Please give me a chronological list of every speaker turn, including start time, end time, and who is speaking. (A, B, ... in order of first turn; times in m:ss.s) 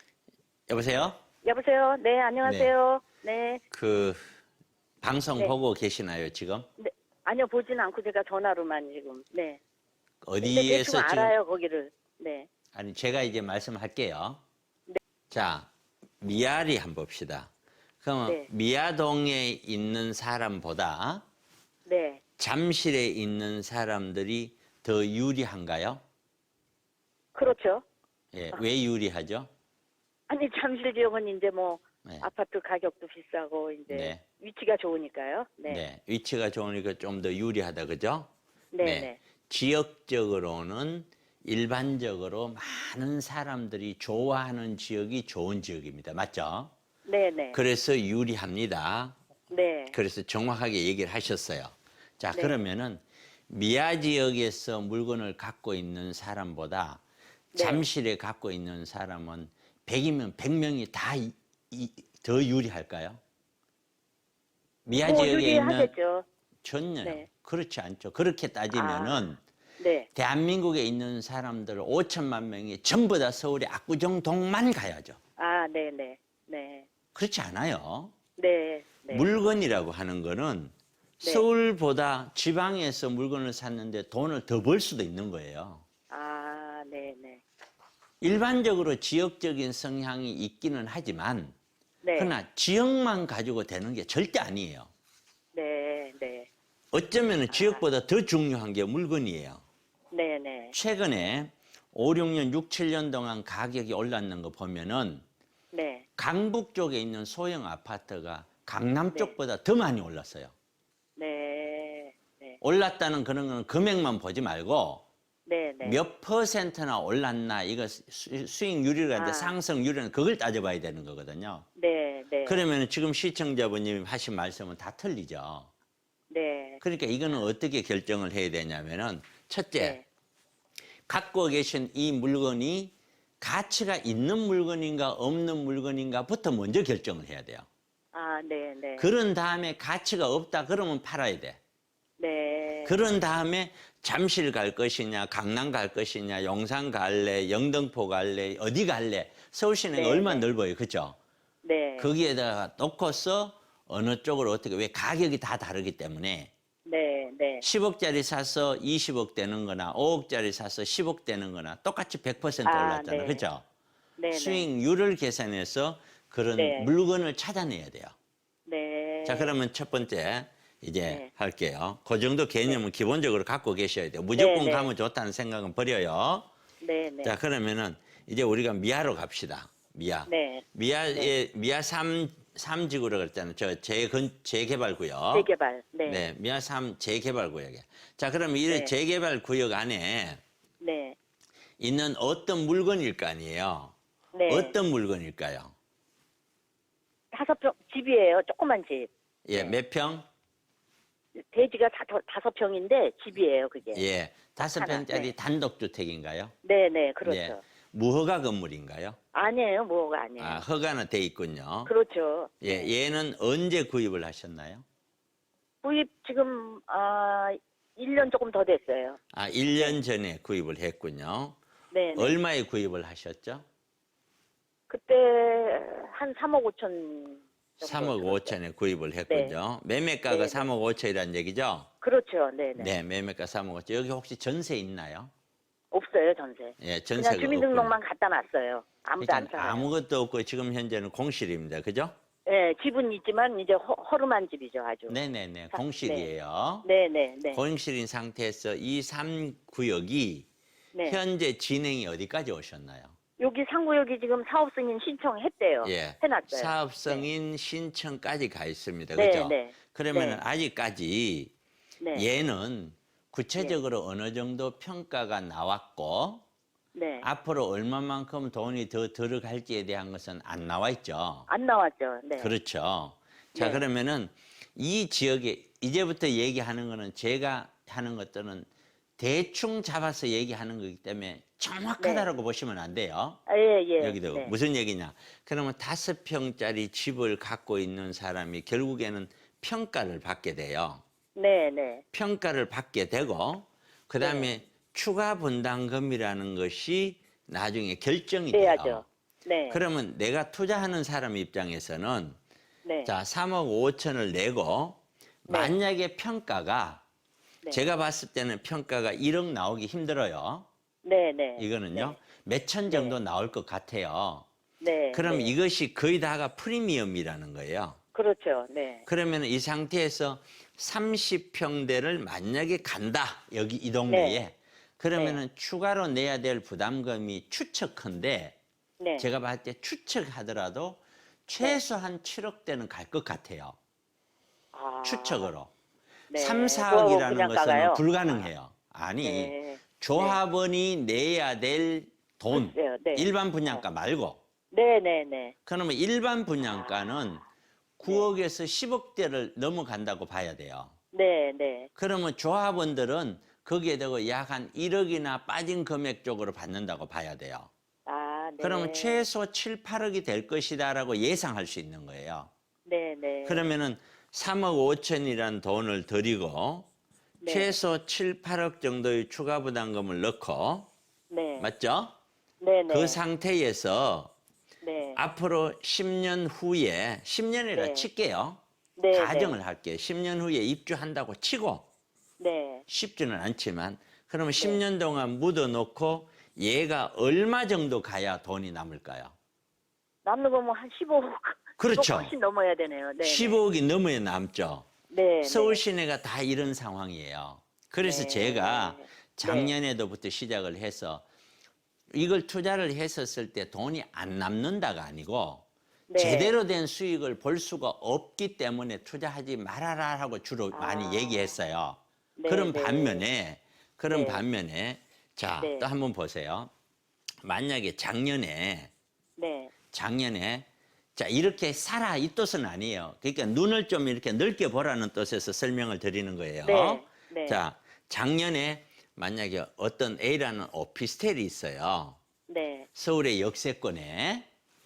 0:00.7-0:01.2 A
0:01.4-0:03.6 B
0:02.4-0:02.7 A
0:03.7-0:04.2 A
0:05.0-0:06.7 A
0:06.8-0:09.6 B
0:10.2-0:11.4 A
0:10.4-0:12.5 B
0:12.7-0:14.4 A
0:15.3-0:15.7 A
0:16.2-0:17.5 A
0:18.0-0:21.2 A
0:21.9-0:22.2 B
0:22.4-0:26.0 A
0:27.3-0:27.8 B
0:28.3-0:29.5 A
0:30.3-0:35.8 B
0:33.9-0:34.2 A
0:35.7-0:38.3 A
0:38.7-0:39.2 B
0:38.8-0:46.7 A
0:47.0-0:47.6 B
0:47.5-0:49.2 A
0:49.5-0:50.0 B
0:49.9-0:57.0 A
0:52.3-0:52.6 B
0:57.5-0:57.9 B
0:57.6-1:03.2 A
1:04.9-1:05.9 A
1:05.0-1:06.2 B
1:06.6-1:09.4 A
1:08.7-1:10.1 B
1:10.2-1:15.2 A
1:15.4-1:16.9 B
1:17.2-1:18.1 A
1:18.4-1:19.4 B
1:19.1-1:25.8 A
1:21.2-1:21.5 B
1:26.1-1:27.4 B
1:28.2-1:31.6 A
1:32.0-1:32.4 B
1:32.2-1:34.9 A
1:35.5-1:36.5 B
1:36.9-1:39.6 A
1:37.5-1:37.8 B
1:40.1-1:40.8 B
1:40.7-1:45.2 A
1:45.7-1:46.0 B
1:46.2-1:50.5 A
1:51.2-1:52.6 B
1:52.6-1:55.0 A
1:55.5-1:56.0 B
1:55.8-2:01.7 A
1:59.1-1:59.6 B
2:01.8-2:02.6 B
2:02.4-2:05.7 A
2:06.3-2:06.8 B
2:06.8-2:10.0 A
2:09.8-2:10.0 B
2:11.1-2:17.7 A
2:18.1-2:19.1 B
2:19.0-2:21.6 A
2:22.2-2:23.1 B
2:22.8-2:31.2 A
2:29.9-2:30.5 B
2:31.6-2:32.1 B
2:32.0-2:36.5 A
2:36.8-2:37.6 B
2:37.6-2:43.6 A
2:42.6-2:43.5 B
2:44.2-2:44.7 B
2:44.3-2:48.2 A
2:46.6-2:46.9 B
2:48.7-2:49.6 B
2:49.2-2:56.5 A
2:54.4-2:54.9 B
2:56.8-2:57.4 B
2:57.2-3:05.5 A
3:00.3-3:01.3 B
3:05.3-3:06.3 B
3:06.1-3:10.4 A
3:08.7-3:08.9 B
3:10.8-3:11.2 B
3:11.8-3:13.9 A
3:14.3-3:14.8 B
3:14.5-3:15.7 A
3:17.3-3:19.8 B
3:19.5-3:20.2 A
3:21.4-3:24.1 B
3:23.9-3:26.5 A
3:24.6-3:25.3 B
3:26.6-3:27.6 B
3:27.2-3:29.2 A
3:29.3-3:30.6 B
3:30.4-3:31.9 A
3:31.9-3:32.9 B
3:32.6-3:34.8 A
3:35.8-3:39.2 B
3:39.3-3:41.6 A
3:39.7-3:40.0 B
3:41.9-3:42.4 B
3:42.2-3:43.6 A
3:44.9-3:48.6 B
3:47.8-3:51.9 A
3:49.3-3:49.6 B
3:50.3-3:50.7 B
3:52.0-3:52.9 B
3:52.8-3:55.3 A
3:55.9-3:59.9 B
3:56.8-3:58.0 A
3:59.2-4:02.1 A
4:02.5-4:05.2 B
4:05.1-4:06.9 A
4:05.7-4:06.3 B
4:06.8-4:07.6 B
4:07.5-4:10.5 A
4:10.9-4:11.2 B
4:11.1-4:13.1 A
4:13.4-4:17.2 B
4:15.8-4:21.5 A
4:19.1-4:20.4 B
4:22.0-4:22.3 B
4:22.1-4:26.4 A
4:26.9-4:27.3 B
4:27.2-4:31.5 A
4:31.5-4:32.6 B
4:32.4-4:38.7 A
4:33.6-4:33.8 B
4:39.2-4:43.4 A
4:42.0-4:42.3 B
4:43.5-4:44.5 B
4:44.0-4:51.0 A
4:51.4-4:52.0 B
4:52.1-4:59.0 A
4:54.2-4:54.6 B
4:58.5-4:59.8 B
4:59.7-5:02.4 A
5:02.8-5:03.1 B
5:03.1-5:07.0 A
5:05.5-5:05.8 B
5:07.7-5:10.7 A
5:11.0-5:12.2 B
5:11.6-5:14.5 A
5:12.9-5:13.2 B
5:14.8-5:15.6 B
5:15.1-5:18.0 A
5:18.1-5:19.1 B
5:19.1-5:28.6 A
5:24.1-5:24.4 B
5:25.2-5:25.4 B
5:29.0-5:29.3 B
5:29.2-5:33.8 A
5:34.7-5:35.5 B
5:35.0-5:35.7 A
5:36.3-5:38.5 B
5:36.3-5:44.4 A
5:39.2-5:40.4 B
5:42.5-5:43.8 B
5:44.7-5:45.5 B
5:45.7-5:47.4 A
5:46.6-5:47.3 B
5:48.0-5:50.9 A
5:51.1-5:51.9 B
5:52.0-5:57.7 A
5:58.0-5:59.3 B
5:58.6-6:02.5 A
6:02.8-6:03.7 B
6:03.5-6:06.9 A
6:07.4-6:07.8 B
6:07.5-6:10.9 A
6:11.3-6:11.7 B
6:11.6-6:12.2 A
6:12.6-6:13.2 B
6:12.9-6:14.3 A
6:14.8-6:15.2 B
6:15.2-6:18.6 A
6:17.8-6:18.1 B
6:19.0-6:19.6 B
6:19.1-6:21.8 A
6:22.4-6:22.8 B
6:22.9-6:29.3 A
6:24.6-6:24.8 B
6:30.2-6:33.6 B
6:31.8-6:32.3 A
6:33.2-6:34.9 A
6:35.1-6:35.8 B
6:35.4-6:41.3 A
6:38.0-6:39.8 B
6:42.2-6:45.7 A
6:46.1-6:46.6 B
6:46.2-6:56.7 A
6:50.7-6:51.5 B
6:52.4-6:53.2 B
6:54.1-6:54.4 B
6:55.6-6:55.9 B
6:57.4-6:58.9 A
6:59.4-6:59.7 B
6:59.9-7:12.2 A
7:06.6-7:07.6 B
7:12.5-7:12.9 B
7:13.0-7:14.5 A